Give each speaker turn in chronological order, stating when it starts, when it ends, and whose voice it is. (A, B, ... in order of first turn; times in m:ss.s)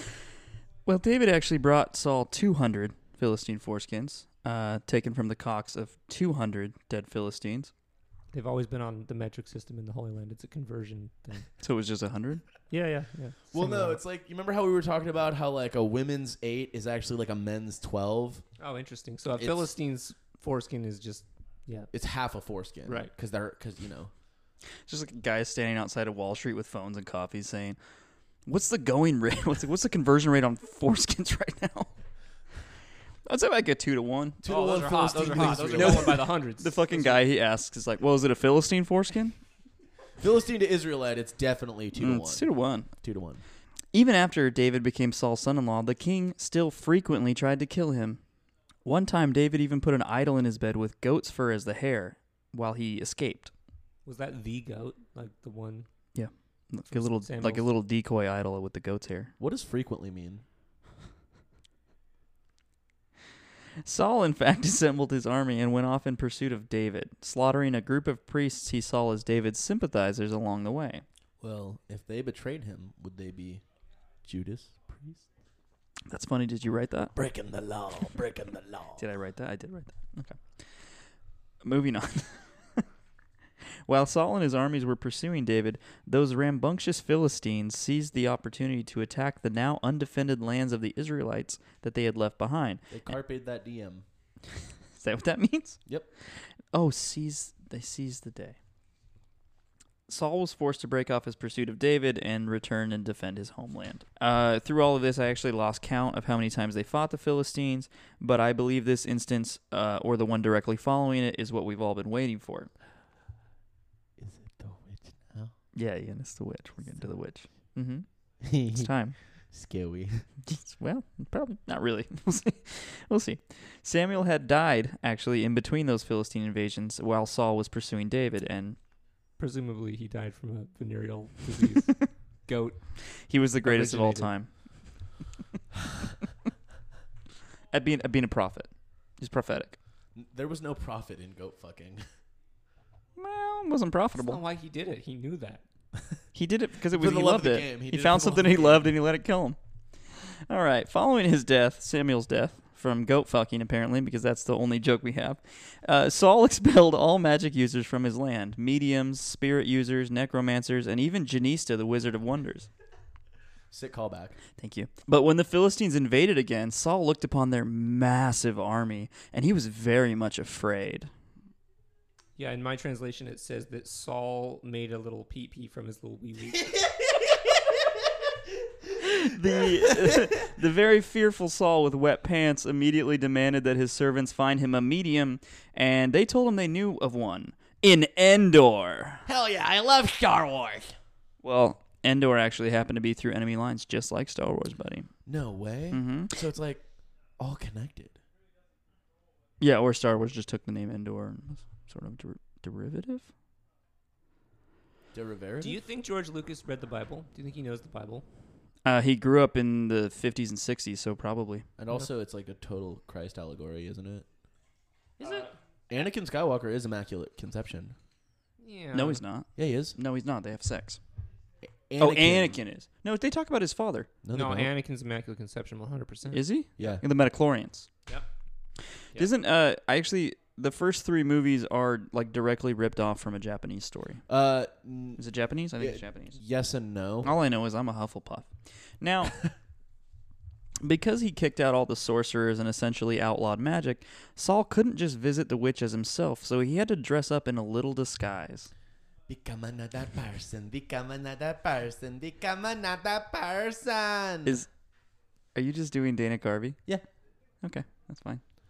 0:00.8-0:07.7 A
0:08.3-0:11.5 B
0:11.6-0:12.4 A
0:12.7-0:14.0 B
0:13.5-0:18.4 C
0:18.6-0:21.9 B
0:19.4-0:19.7 C
0:21.9-0:24.1 C
0:22.8-0:23.1 B
0:24.9-0:27.8 A
0:28.4-0:31.9 A
0:33.2-0:34.4 A
0:34.4-0:36.3 C
0:34.4-0:37.2 B
0:35.5-0:39.4 A
0:40.2-0:43.4 C
0:41.9-0:42.9 A
0:43.9-0:48.2 A
0:48.8-0:53.5 A
0:54.0-0:55.9 B
0:56.1-0:59.3 A
0:56.9-0:57.6 B
0:59.4-1:00.4 C
1:03.8-1:11.0 A
1:11.4-1:13.6 C
1:14.2-1:15.2 C
1:16.1-1:17.1 A
1:17.1-1:19.0 C
1:19.0-1:20.5 A
1:21.6-1:22.8 A
1:23.9-1:33.1 A
1:32.9-1:34.0 C
1:35.0-1:35.8 A
1:36.3-1:38.6 A
1:40.1-1:52.7 A
1:54.2-1:55.5 C
1:55.7-1:58.1 A
1:58.4-1:58.9 C
1:58.7-1:59.2 A
1:59.5-2:00.2 C
2:00.4-2:08.8 A
2:09.4-2:12.9 B
2:13.2-2:14.5 A
2:13.6-2:14.3 B
2:17.7-2:19.8 A
2:20.1-2:22.0 C
2:23.2-2:24.4 A
2:24.2-2:25.6 B
2:26.3-2:29.6 A
2:26.9-2:28.9 C
2:30.1-2:42.7 A
2:43.7-2:44.4 C
2:44.6-2:51.1 A
2:52.4-2:56.8 B
2:59.0-3:09.2 A
2:59.8-3:00.2 C
3:09.3-3:10.9 C
3:11.4-3:15.1 A
3:15.2-3:16.8 C
3:15.9-3:16.4 A
3:17.4-3:18.2 C
3:19.6-3:23.3 A
3:25.1-3:25.8 C
3:25.6-3:28.2 B
3:28.8-3:31.6 A
3:31.8-3:34.2 C
3:35.2-3:35.6 B
3:35.2-3:38.0 C
3:38.6-3:39.2 B
3:38.9-3:41.0 A
3:39.6-3:40.0 C
3:41.9-3:42.6 C
3:42.0-3:44.1 A
3:44.2-3:44.7 C
3:44.3-3:46.4 B
3:46.3-3:47.9 A
3:46.8-3:47.0 C
3:49.1-3:54.2 A
3:54.3-3:55.2 C
3:55.2-3:56.4 A
3:55.8-3:57.3 C
3:57.2-3:59.4 A
4:00.8-4:08.7 A
4:09.3-4:14.6 C
4:15.5-4:16.8 A
4:17.6-4:18.4 A